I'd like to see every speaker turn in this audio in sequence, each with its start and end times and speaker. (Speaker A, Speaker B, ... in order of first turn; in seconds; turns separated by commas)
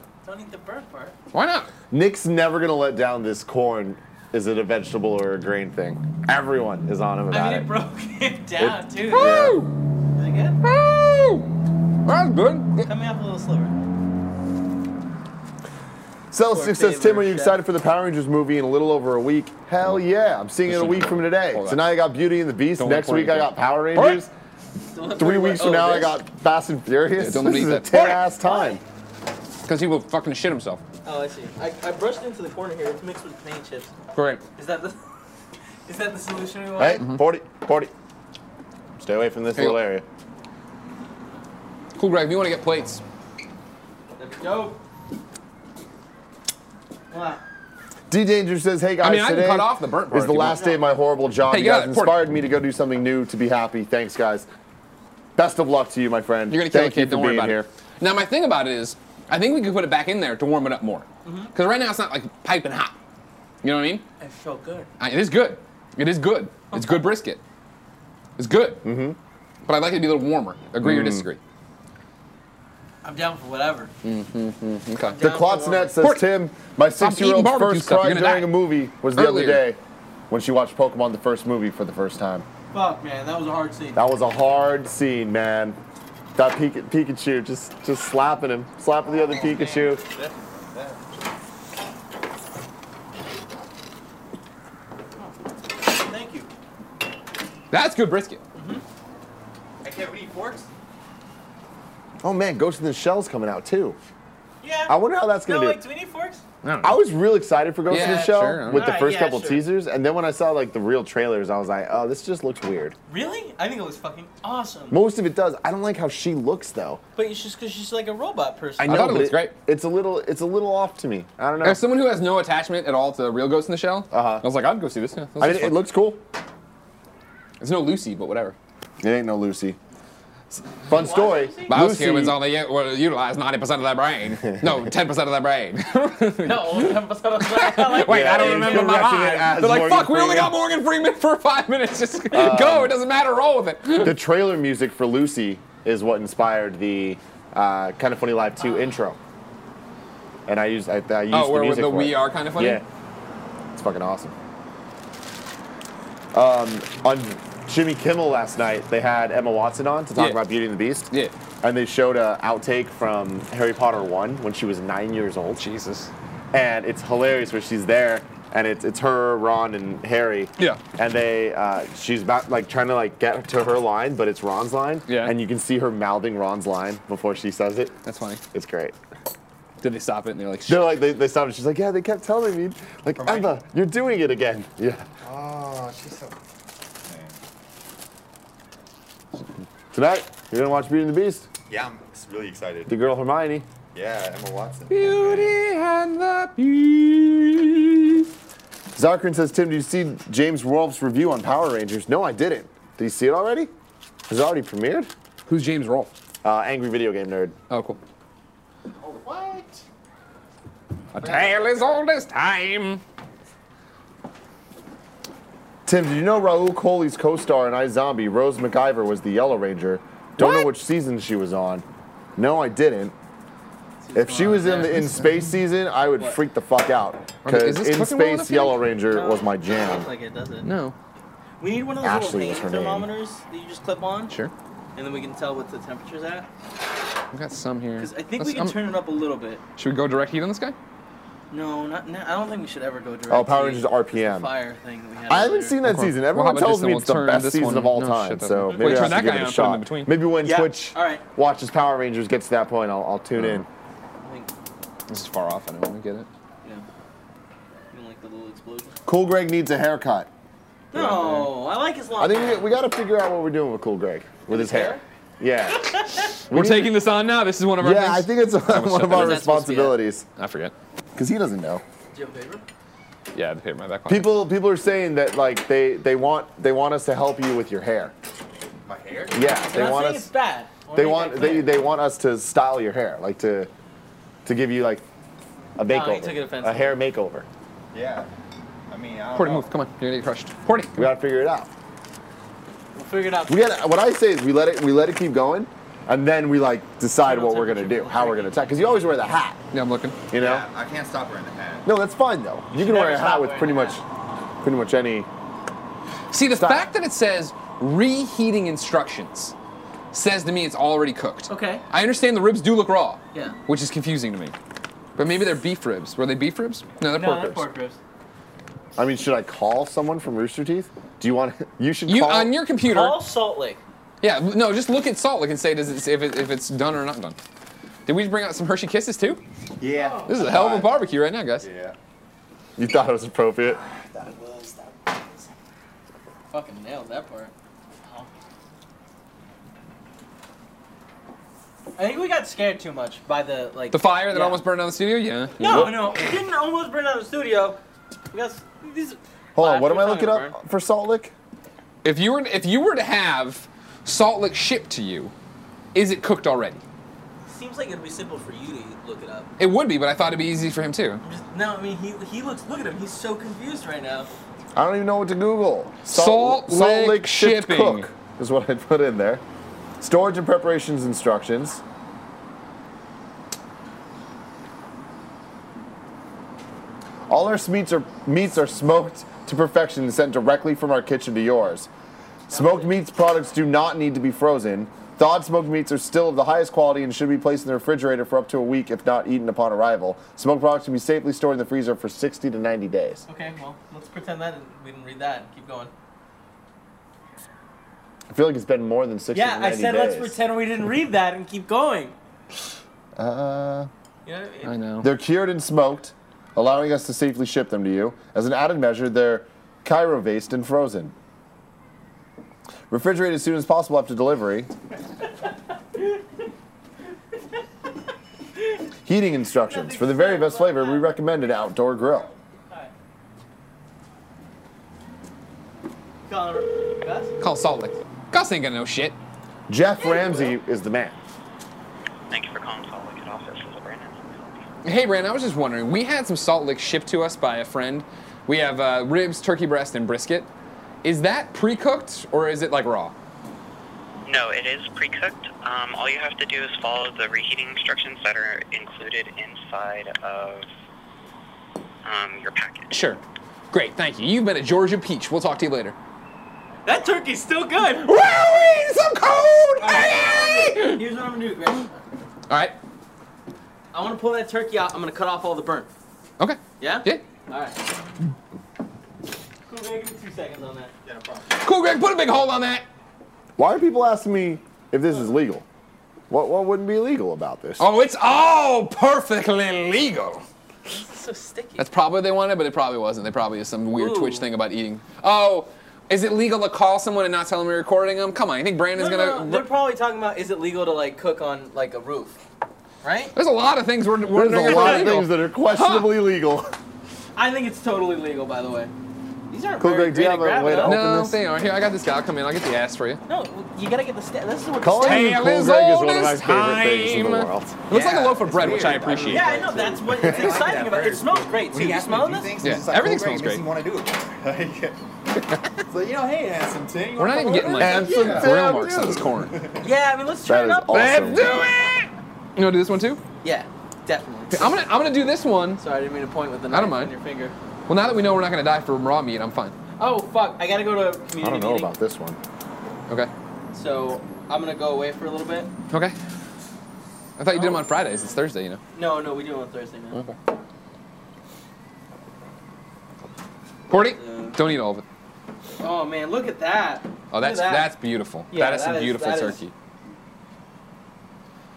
Speaker A: 0.2-1.1, Speaker B: 1.3-1.7, Speaker C: 1.9-7.7, Speaker A: 7.3-9.4, Speaker C: 8.6-9.7, Speaker B: 9.1-9.7, Speaker A: 10.2-10.6, Speaker B: 10.6-11.5, Speaker B: 12.1-12.9, Speaker A: 12.9-13.8, Speaker C: 16.3-24.3, Speaker A: 16.5-17.6, Speaker B: 20.7-21.9, Speaker B: 22.8-24.2, Speaker A: 24.9-26.2, Speaker C: 25.2-28.8, Speaker B: 27.2-28.2, Speaker A: 28.4-28.8, Speaker B: 29.6-30.8, Speaker A: 31.1-33.9, Speaker B: 34.1-34.4, Speaker A: 34.6-35.0, Speaker A: 35.9-37.0, Speaker C: 36.8-37.9, Speaker C: 39.0-40.0, Speaker B: 39.5-39.8, Speaker B: 42.0-43.0, Speaker A: 44.2-44.8, Speaker A: 47.1-47.4, Speaker C: 48.1-54.5, Speaker B: 49.0-50.7, Speaker B: 51.5-52.2, Speaker C: 55.4-57.7, Speaker B: 56.5-62.9, Speaker A: 61.2-61.5, Speaker B: 63.6-64.0, Speaker A: 64.2-64.9, Speaker B: 65.0-67.4, Speaker A: 66.7-67.1, Speaker B: 68.4-68.8, Speaker C: 68.8-69.2, Speaker B: 69.7-71.4, Speaker C: 70.8-71.3, Speaker A: 73.0-73.9, Speaker B: 74.0-75.2, Speaker A: 75.0-76.0, Speaker C: 75.2-82.5, Speaker B: 76.0-76.3, Speaker B: 77.0-79.6, Speaker A: 82.7-84.0, Speaker C: 84.0-85.8, Speaker C: 86.3-90.1, Speaker D: 89.2-91.0, Speaker A: 95.2-96.5, Speaker B: 97.7-98.4, Speaker A: 98.6-98.8, Speaker D: 99.8-100.7, Speaker C: 102.2-104.0, Speaker A: 104.6-106.4, Speaker C: 104.9-105.8, Speaker B: 106.6-107.0, Speaker C: 106.8-113.0, Speaker B: 107.9-108.9, Speaker A: 107.9-109.7, Speaker A: 113.1-115.0, Speaker C: 114.9-117.0, Speaker A: 117.2-119.2, Speaker C: 118.8-121.8, Speaker B: 118.8-119.5, Speaker B: 121.6-125.8, Speaker C: 124.1-124.5, Speaker C: 125.4-126.2, Speaker B: 127.6-128.6, Speaker C: 129.0-129.8, Speaker C: 130.8-132.4, Speaker A: 130.9-131.7, Speaker B: 131.7-144.2, Speaker A: 136.4-139.0, Speaker C: 138.0-140.6, Speaker C: 142.3-143.0, Speaker C: 144.0-149.2, Speaker C: 150.5-152.8, Speaker B: 151.3-152.8, Speaker C: 153.7-154.3, Speaker C: 156.3-161.1, Speaker B: 160.2-160.4, Speaker C: 161.6-165.7, Speaker B: 165.6-166.1, Speaker C: 166.5-177.9, Speaker B: 175.1-175.4, Speaker B: 178.1-178.4, Speaker C: 178.5-179.0, Speaker B: 179.8-180.9, Speaker C: 180.7-185.1, Speaker D: 183.2-183.5, Speaker D: 185.2-186.4, Speaker D: 187.0-187.4, Speaker C: 189.9-191.5, Speaker D: 191.7-192.9, Speaker C: 192.9-193.7, Speaker D: 193.9-195.6, Speaker B: 194.9-198.3, Speaker C: 198.9-203.7, Speaker C: 204.3-205.1, Speaker B: 205.5-206.1, Speaker C: 206.4-207.6, Speaker B: 207.7-208.0, Speaker D: 208.9-209.8, Speaker D: 211.1-212.0, Speaker B: 211.1-213.0, Speaker C: 215.9-221.8, Speaker B: 220.4-220.7, Speaker C: 222.4-223.2, Speaker A: 224.0-225.1, Speaker C: 224.1-230.1, Speaker B: 224.6-225.1, Speaker B: 227.4-228.8, Speaker A: 229.1-230.7, Speaker B: 230.6-230.9, Speaker A: 231.6-234.3, Speaker C: 232.0-233.1, Speaker A: 235.0-236.5, Speaker B: 237.3-238.8, Speaker A: 238.0-239.6, Speaker B: 239.8-240.8, Speaker A: 241.5-245.8, Speaker C: 243.3-244.5, Speaker C: 245.3-253.7, Speaker B: 245.8-250.1, Speaker A: 248.6-249.1, Speaker A: 250.4-251.2, Speaker A: 254.2-254.5, Speaker B: 255.1-256.3, Speaker A: 257.9-259.0, Speaker C: 259.1-260.3, Speaker A: 260.9-262.7, Speaker C: 260.9-261.5, Speaker C: 262.2-267.0, Speaker A: 264.5-265.0, Speaker B: 266.5-269.5, Speaker C: 267.8-270.3, Speaker A: 269.1-270.0, Speaker B: 270.4-270.7, Speaker C: 271.2-271.8, Speaker A: 272.1-272.6, Speaker B: 273.3-274.3, Speaker C: 274.1-278.1, Speaker D: 278.9-279.4, Speaker C: 279.3-280.3, Speaker A: 279.5-281.8, Speaker C: 280.9-283.7, Speaker C: 284.4-285.0, Speaker C: 285.8-287.5, Speaker A: 285.9-287.0, Speaker D: 287.9-288.3, Speaker D: 288.9-289.7, Speaker B: 289.3-291.1, Speaker C: 291.0-291.7, Speaker A: 292.9-293.9, Speaker C: 293.5-299.6, Speaker A: 297.2-298.6, Speaker B: 299.7-300.2, Speaker C: 300.3-300.7, Speaker D: 300.4-301.9, Speaker C: 301.9-304.0, Speaker A: 302.7-304.0, Speaker C: 304.6-305.3, Speaker B: 306.3-309.5, Speaker C: 306.5-306.9, Speaker B: 310.1-314.6, Speaker A: 311.5-311.8, Speaker B: 315.2-317.7, Speaker A: 317.1-318.0, Speaker C: 319.0-322.5, Speaker B: 322.1-323.2, Speaker A: 322.8-323.8, Speaker B: 324.2-327.4, Speaker B: 328.1-329.4, Speaker D: 329.8-332.0, Speaker A: 329.9-330.3, Speaker B: 330.3-331.7, Speaker C: 332.8-333.8, Speaker D: 333.7-335.2, Speaker A: 336.5-337.5, Speaker A: 342.0-344.6, Speaker B: 343.9-346.0, Speaker A: 345.6-347.8, Speaker C: 345.6-346.1, Speaker A: 348.3-350.6, Speaker C: 349.6-351.3, Speaker B: 352.0-355.3, Speaker B: 355.9-356.8, Speaker A: 357.5-359.5, Speaker B: 359.6-361.2, Speaker A: 361.2-364.3, Speaker C: 364.8-369.4, Speaker B: 366.1-368.1, Speaker C: 370.0-371.8, Speaker C: 377.3-381.9, Speaker A: 382.5-383.0, Speaker C: 382.5-393.2, Speaker A: 393.3-395.9, Speaker C: 398.3-400.4, Speaker A: 399.3-402.1, Speaker C: 403.2-403.9, Speaker A: 404.3-404.7, Speaker B: 404.6-405.1, Speaker C: 405.0-411.1, Speaker C: 412.9-414.7, Speaker A: 415.9-416.2, Speaker C: 419.1-422.3, Speaker A: 419.6-421.2, Speaker A: 426.3-427.3, Speaker B: 427.4-429.2, Speaker C: 429.7-431.2, Speaker A: 430.0-430.4, Speaker E: 432.3-434.6, Speaker B: 434.8-440.5, Speaker B: 441.0-443.1, Speaker E: 444.2-450.7, Speaker E: 452.0-453.0, Speaker B: 452.9-455.9, Speaker A: 456.9-458.1, Speaker C: 458.1-460.7, Speaker A: 459.8-461.9, Speaker B: 460.7-460.9, Speaker B: 462.5-462.8, Speaker A: 463.9-465.9, Speaker B: 466.4-467.2, Speaker A: 466.8-467.8, Speaker A: 469.7-470.9, Speaker D: 471.0-471.7, Speaker B: 471.5-472.9, Speaker C: 473.6-475.6, Speaker C: 476.3-477.9, Speaker B: 477.8-480.4, Speaker A: 480.9-481.9, Speaker B: 481.8-489.7, Speaker A: 483.9-484.5, Speaker A: 488.9-492.4, Speaker A: 493.0-493.4, Speaker B: 493.4-496.2, Speaker C: 494.3-496.7, Speaker A: 494.6-495.1, Speaker A: 497.4-498.9, Speaker A: 499.5-501.0, Speaker C: 499.8-501.4, Speaker B: 500.8-503.2, Speaker A: 503.3-505.4, Speaker C: 504.8-507.8, Speaker B: 505.0-509.7, Speaker D: 507.9-515.0, Speaker A: 509.2-512.6, Speaker B: 512.6-513.7, Speaker D: 515.9-518.6, Speaker B: 517.2-519.6, Speaker C: 517.8-519.3, Speaker D: 519.4-519.9, Speaker A: 519.8-521.6, Speaker C: 520.5-521.5, Speaker B: 520.9-523.2, Speaker A: 523.4-524.7, Speaker B: 524.5-525.8, Speaker A: 525.8-527.5, Speaker B: 526.7-527.1, Speaker B: 527.9-529.8, Speaker A: 530.0-531.9, Speaker C: 531.4-532.4, Speaker A: 533.7-535.7, Speaker B: 535.9-536.2, Speaker B: 537.4-538.8, Speaker A: 537.5-538.1, Speaker A: 538.9-540.2, Speaker B: 543.9-545.0, Speaker A: 544.2-544.6, Speaker A: 545.8-548.0, Speaker B: 547.3-549.7, Speaker A: 548.5-549.6